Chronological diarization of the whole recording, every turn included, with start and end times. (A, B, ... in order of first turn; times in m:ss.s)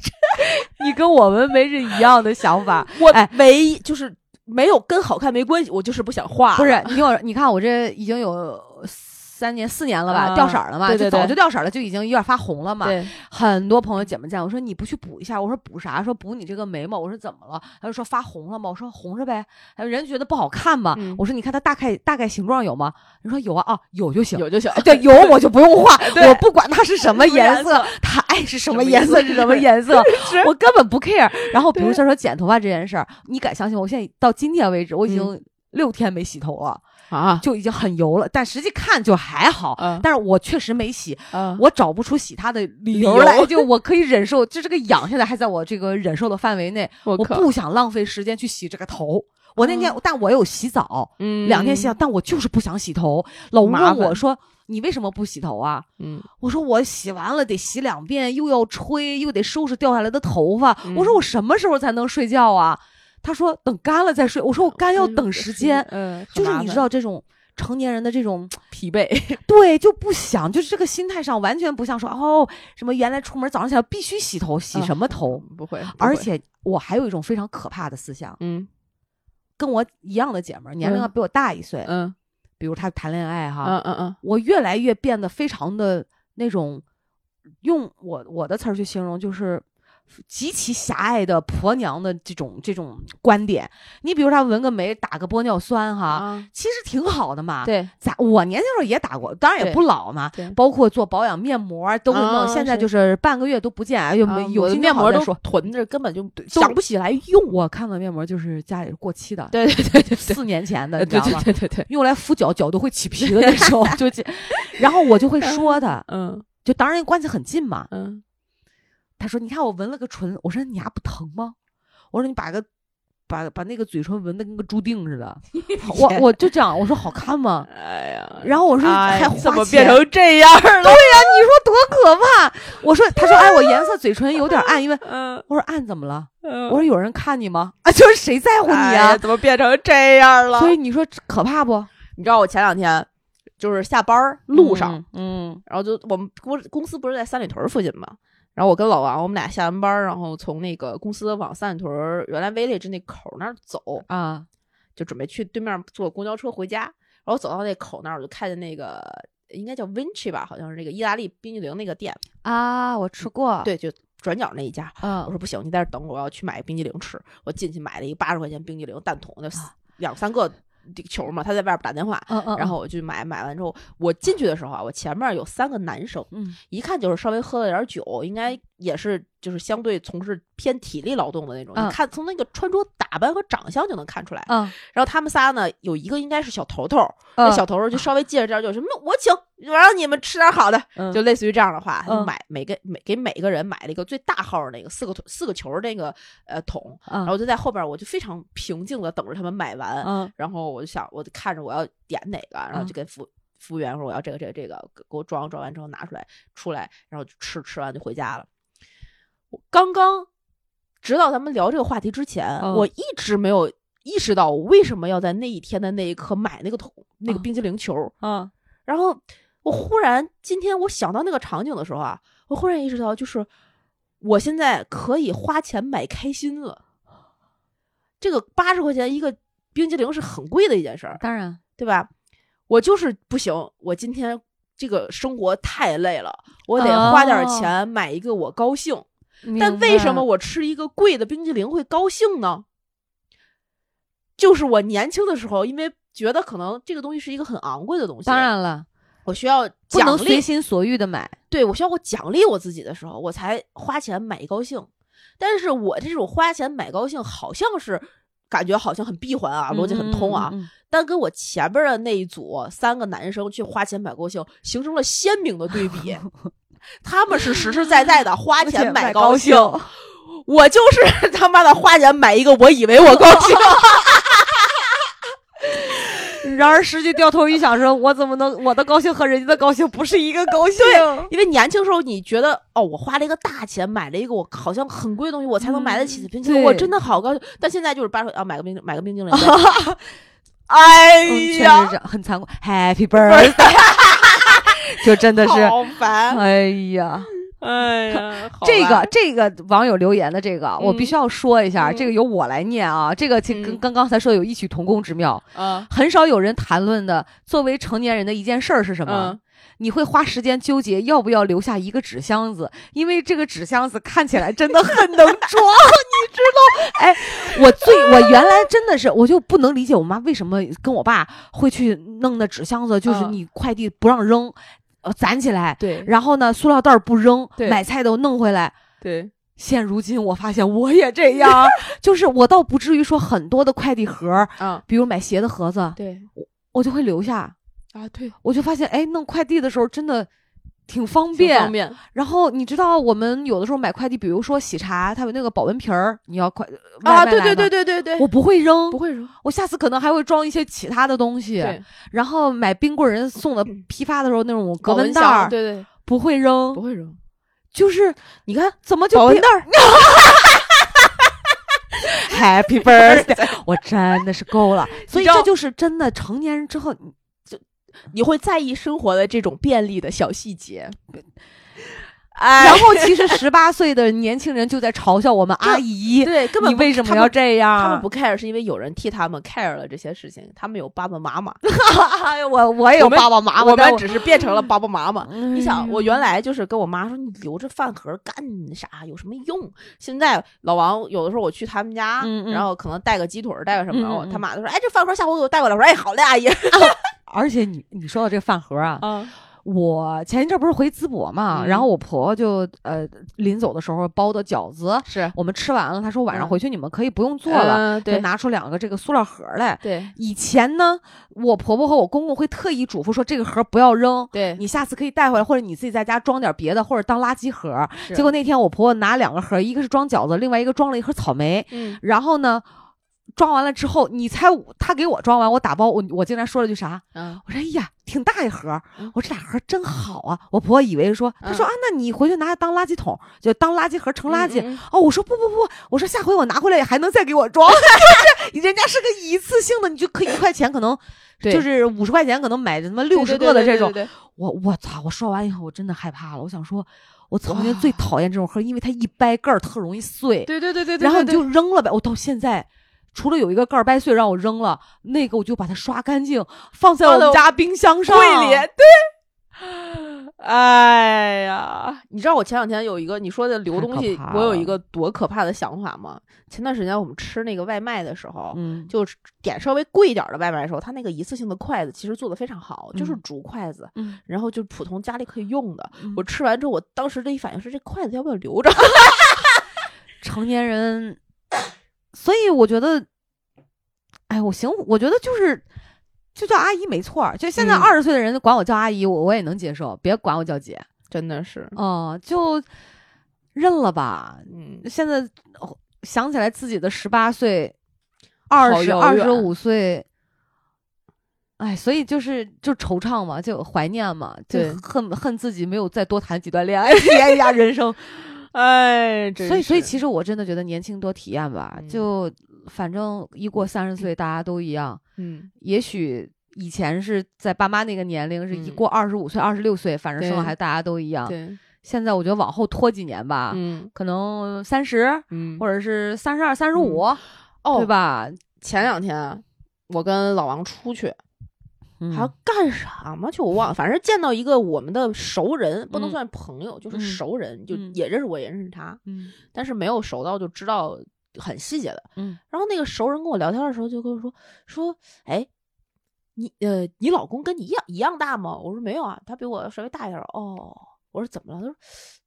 0:00.4-0:03.3 A
0:02.9-0:07.0 B
0:06.5-0:36.8 A
0:10.1-0:11.4 B
0:12.8-0:13.1 B
0:20.9-0:21.2 B
0:24.3-0:25.4 B
0:26.0-0:26.4 B
0:27.0-0:28.0 B
0:28.7-0:30.5 B
0:31.6-0:32.0 B
0:37.1-0:37.4 B
0:37.4-0:55.8 A
0:39.8-0:40.0 B
0:41.3-0:41.6 B
0:42.9-0:43.6 B
0:47.0-0:47.5 B
0:49.6-0:50.0 B
0:51.2-0:51.9 B
0:53.6-0:54.2 B
0:56.0-0:56.3 B
0:56.4-1:08.6 A
1:00.8-1:01.2 B
1:04.8-1:06.8 B
1:08.7-1:09.4 B
1:09.4-1:15.4 A
1:14.7-1:16.3 B
1:15.9-1:18.4 A
1:18.4-1:18.7 B
1:19.6-1:21.9 A
1:20.8-1:21.1 B
1:21.8-1:22.1 B
1:22.6-1:26.8 A
1:23.6-1:24.2 B
1:27.6-1:29.6 A
1:30.3-1:45.4 A
1:36.1-1:36.5 B
1:37.6-1:37.9 B
1:42.1-1:42.9 B
1:44.2-1:47.6 B
1:46.4-1:46.8 A
1:47.5-1:49.6 A
1:49.5-1:50.4 B
1:50.1-1:56.0 A
1:51.0-1:51.9 B
1:53.2-1:53.9 B
1:55.4-1:56.4 B
1:56.6-1:57.9 A
1:57.9-1:58.2 B
1:59.2-2:01.5 A
2:02.1-2:02.6 A
2:03.3-2:07.7 A
2:05.7-2:06.2 B
2:07.7-2:11.4 B
2:08.4-2:10.0 A
2:10.8-2:19.2 A
2:13.2-2:13.9 B
2:14.5-2:15.4 B
2:16.4-2:16.8 B
2:18.6-2:20.8 B
2:20.6-2:21.9 A
2:22.2-2:23.1 B
2:23.6-2:25.0 B
2:24.5-2:25.6 A
2:25.7-2:34.0 B
2:34.1-2:34.5 A
2:35.0-2:42.2 B
2:42.4-2:43.7 A
2:43.6-3:28.5 B
2:45.0-2:45.3 A
2:52.3-2:52.7 A
2:56.3-2:56.6 A
3:04.5-3:04.7 A
3:07.4-3:07.6 A
3:12.0-3:12.3 A
3:17.1-3:17.3 A
3:20.0-3:20.3 A
3:29.5-3:30.3 B
3:31.0-3:38.1 B
3:32.6-3:32.9 A
3:38.2-3:38.5 A
3:38.8-3:43.5 B
3:44.2-3:46.8 B
3:48.2-3:51.2 B
3:51.2-3:51.6 A
3:51.8-3:52.1 B
3:52.7-4:02.6 B
3:56.8-3:57.7 A
3:59.4-4:00.2 A
4:04.4-4:08.5 B
4:08.2-4:08.9 A
4:09.2-4:10.4 B
4:09.9-4:11.4 A
4:11.5-4:26.2 B
4:19.7-4:20.7 A
4:27.0-4:35.1 B
4:28.6-4:29.9 A
4:33.2-4:33.4 A
4:35.8-4:36.2 B
4:36.4-4:41.3 A
4:40.8-4:49.6 B
4:45.6-4:46.9 A
4:49.3-4:50.1 A
4:50.7-4:51.9 B
4:51.2-4:54.0 A
4:53.2-4:54.7 B
4:54.9-4:57.3 A
4:55.4-4:56.4 B
4:57.4-4:59.1 B
4:58.1-5:28.7 A
5:00.8-5:01.2 B
5:01.8-5:02.1 B
5:03.5-5:03.8 B
5:05.5-5:05.9 B
5:09.0-5:09.4 B
5:17.2-5:18.6 B
5:23.0-5:23.4 B
5:25.8-5:26.1 B
5:29.0-5:29.3 B
5:29.6-5:37.5 A
5:31.4-5:31.7 B
5:34.6-5:34.8 B
5:36.0-5:36.3 B
5:37.9-5:38.4 B
5:38.4-5:40.3 A
5:40.9-5:56.8 A
5:41.3-5:42.0 B
5:47.0-5:48.3 B
5:48.9-5:49.3 B
5:51.6-5:51.8 B
5:54.8-5:55.9 B
5:56.7-5:57.2 B
5:57.7-5:58.2 A
5:58.4-6:01.1 B
5:58.8-6:00.3 A
6:02.1-6:07.1 A
6:02.8-6:03.5 B
6:05.1-6:05.5 B
6:07.5-6:11.0 B
6:12.3-6:13.4 B
6:12.6-6:18.0 A
6:15.6-6:21.6 B
6:21.6-6:24.1 A
6:23.0-6:37.0 B
6:25.2-6:26.2 A
6:32.2-6:32.7 A
6:33.9-6:34.4 A
6:36.7-6:39.1 A
6:39.0-6:39.3 B
6:39.6-7:02.6 A
6:41.5-6:41.9 B
6:45.0-6:45.3 B
6:47.5-6:48.2 B
6:49.8-6:50.1 B
6:54.3-6:54.6 B
7:01.7-7:02.0 B
7:03.4-7:38.7 A
7:07.1-7:07.4 B
7:14.3-7:14.8 B
7:23.1-7:24.1 B
7:27.5-7:28.0 B
7:30.4-7:31.4 B
7:37.0-7:37.4 B
7:38.1-7:59.6 B
7:43.7-7:44.7 A
7:48.5-7:48.9 A
8:00.2-8:01.2 A
8:02.1-8:03.0 A
8:04.3-8:05.6 A
8:06.3-8:10.9 A
8:07.6-8:07.9 B
8:11.1-8:11.8 B
8:11.7-8:12.6 A
8:13.5-8:17.8 A
8:14.5-8:14.8 B
8:18.5-8:20.0 A
8:18.6-8:19.5 B
8:21.6-8:28.1 A
8:24.5-8:24.8 B
8:28.4-8:29.9 B
8:29.4-8:35.0 A
8:31.7-8:32.0 B
8:35.2-8:35.5 B
8:35.6-8:47.2 A
8:38.5-8:38.8 B
8:40.2-8:40.5 B
8:41.2-8:41.6 B
8:43.5-8:43.9 B
8:45.3-8:45.6 B
8:46.7-8:47.0 B
8:47.6-8:47.9 B
8:47.7-8:48.4 A
8:48.6-8:51.2 B
8:52.0-8:52.3 A
8:52.1-9:05.5 B
8:55.9-8:56.2 A
8:56.9-8:57.2 A
8:59.0-8:59.3 A
9:06.4-9:12.0 B